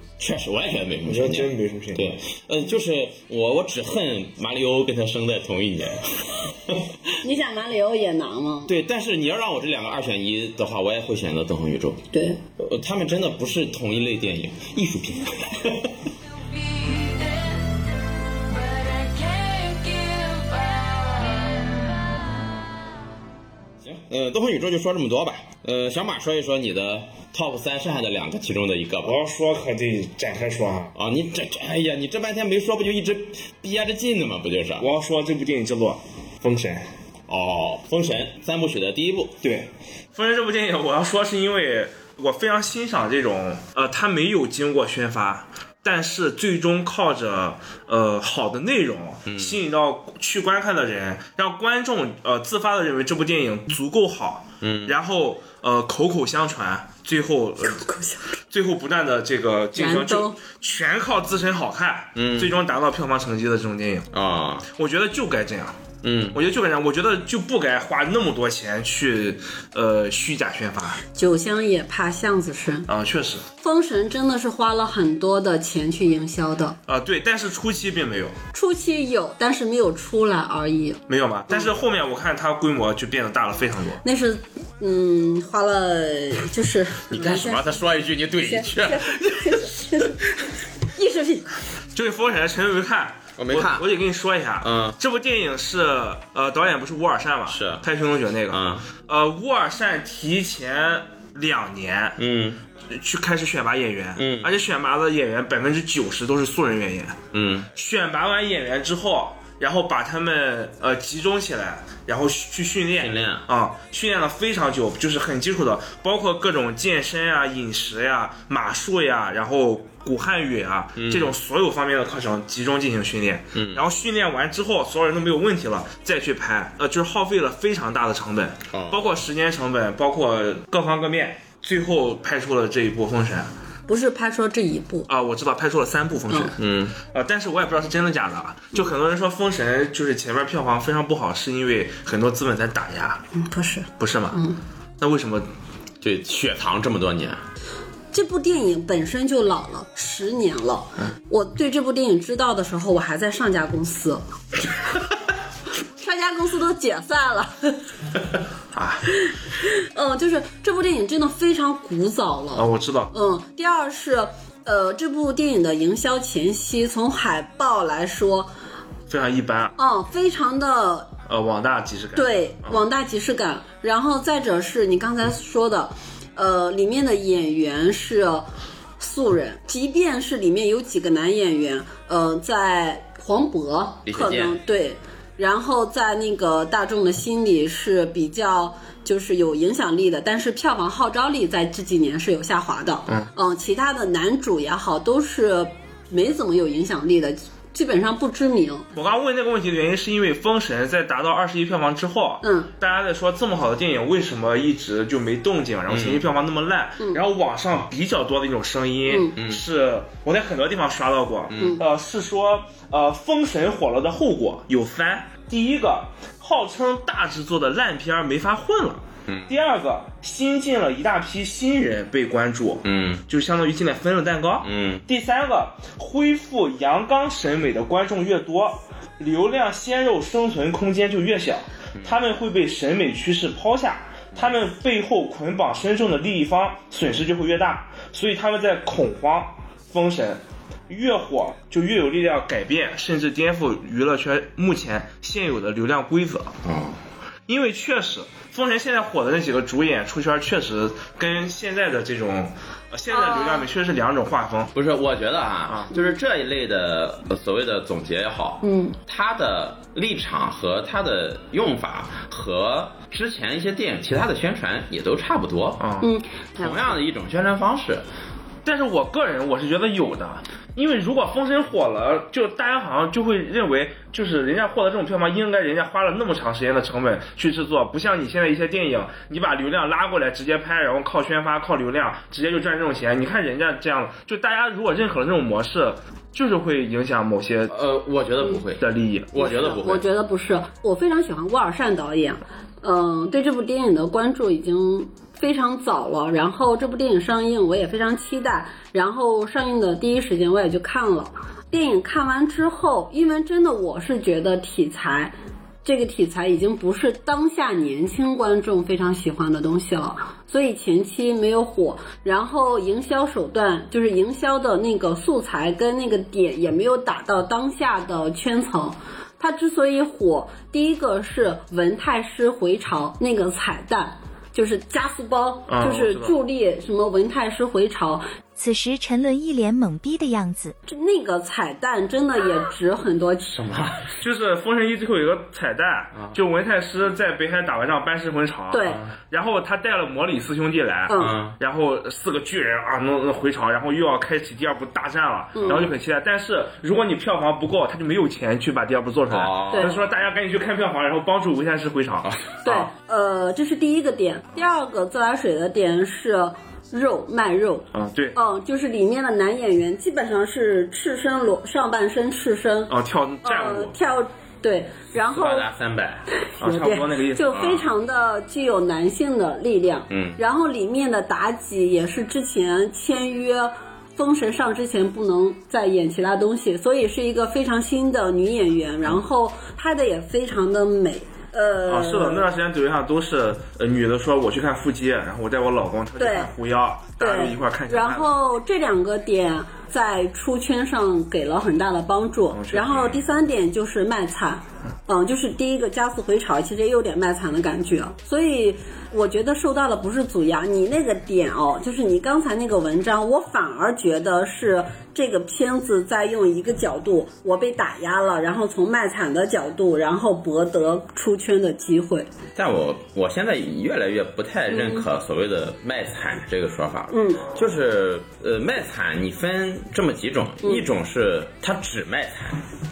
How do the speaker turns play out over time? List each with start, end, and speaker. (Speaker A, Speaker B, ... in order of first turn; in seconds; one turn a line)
Speaker A: 0.2-7.0
Speaker B: 1.1-2.2
Speaker C: 7.2-8.7
Speaker A: 8.7-12.0
Speaker C: 12.1-12.4
Speaker A: 12.6-15.9
Speaker D: 16.4-22.2
Speaker A: 23.8-29.2
Speaker B: 29.0-30.9
Speaker A: 30.9-34.9
Speaker B: 34.8-36.9
Speaker A: 37.3-39.4
Speaker B: 39.4-57.9
Speaker A: 49.3-49.6
Speaker A: 54.6-55.0
Speaker C: 57.7-58.3
Speaker B: 58.5-64.1
Speaker C: 59.8-60.4
Speaker A: 62.2-62.5
Speaker A: 64.1-64.7
Speaker B: 64.7-65.8
Speaker A: 66.0-66.4
Speaker B: 66.3-71.0
Speaker C: 71.1-72.9
Speaker B: 72.9-73.5
Speaker C: 73.6-76.8
Speaker B: 76.9-78.4
Speaker C: 78.5-81.0
Speaker B: 81.1-84.0
Speaker C: 84.0-87.7
Speaker A: 87.1-89.9
Speaker C: 88.4-91.5
Speaker B: 92.0-102.2
Speaker A: 93.4-93.9
Speaker A: 94.6-95.0
Speaker A: 97.5-97.8
Speaker A: 98.5-98.9
Speaker A: 102.2-102.6
Speaker B: 102.9-107.2
Speaker A: 104.2-104.6
Speaker A: 107.3-107.7
Speaker B: 107.7-133.5
Speaker A: 113.0-113.5
Speaker A: 121.0-121.3
Speaker A: 123.5-123.8
Speaker A: 128.7-129.0
Speaker C: 133.9-135.1
Speaker B: 135.1-143.2
Speaker A: 136.6-136.9
Speaker C: 143.3-144.6
Speaker B: 144.0-144.4
Speaker B: 145.0-145.5
Speaker A: 146.0-147.4
Speaker C: 148.1-154.2
Speaker C: 156.0-157.8
Speaker B: 158.7-159.1
Speaker C: 159.3-168.5
Speaker B: 162.6-163.1
Speaker B: 169.1-169.7
Speaker C: 169.8-171.1
Speaker B: 171.3-172.8
Speaker C: 172.2-178.5
Speaker C: 179.0-198.9
Speaker A: 184.1-184.6
Speaker B: 198.9-246.6
Speaker C: 202.4-202.7
Speaker A: 205.9-206.2
Speaker C: 209.1-209.3
Speaker A: 209.4-209.6
Speaker A: 211.5-211.8
Speaker A: 219.3-219.5
Speaker A: 222.8-223.2
Speaker A: 224.6-225.0
Speaker A: 246.6-247.0
Speaker B: 247.5-254.7
Speaker C: 253.1-253.7
Speaker A: 254.7-265.9
Speaker C: 258.6-259.0
Speaker B: 265.8-266.1
Speaker C: 266.0-266.8
Speaker A: 266.6-268.1
Speaker B: 268.6-287.8
Speaker A: 287.7-290.1
Speaker B: 288.8-289.3
Speaker C: 289.4-328.2
Speaker B: 325.7-326.3
Speaker E: 328.6-330.8
Speaker C: 330.9-333.8
Speaker B: 333.7-352.9
Speaker C: 338.7-339.0
Speaker C: 341.1-341.4
Speaker A: 341.2-341.6
Speaker C: 345.6-345.9
Speaker A: 349.3-350.0
Speaker C: 349.7-350.0
Speaker C: 352.6-365.7
Speaker B: 357.9-358.4
Speaker B: 362.9-363.9
Speaker A: 365.3-366.3
Speaker C: 366.4-382.5
Speaker B: 366.6-367.7
Speaker A: 367.5-367.9
Speaker A: 370.1-370.4
Speaker B: 381.9-388.3
Speaker C: 386.2-386.5
Speaker C: 387.2-412.3
Speaker B: 392.5-393.2
Speaker A: 412.6-422.6
Speaker C: 414.7-415.1
Speaker C: 417.1-417.5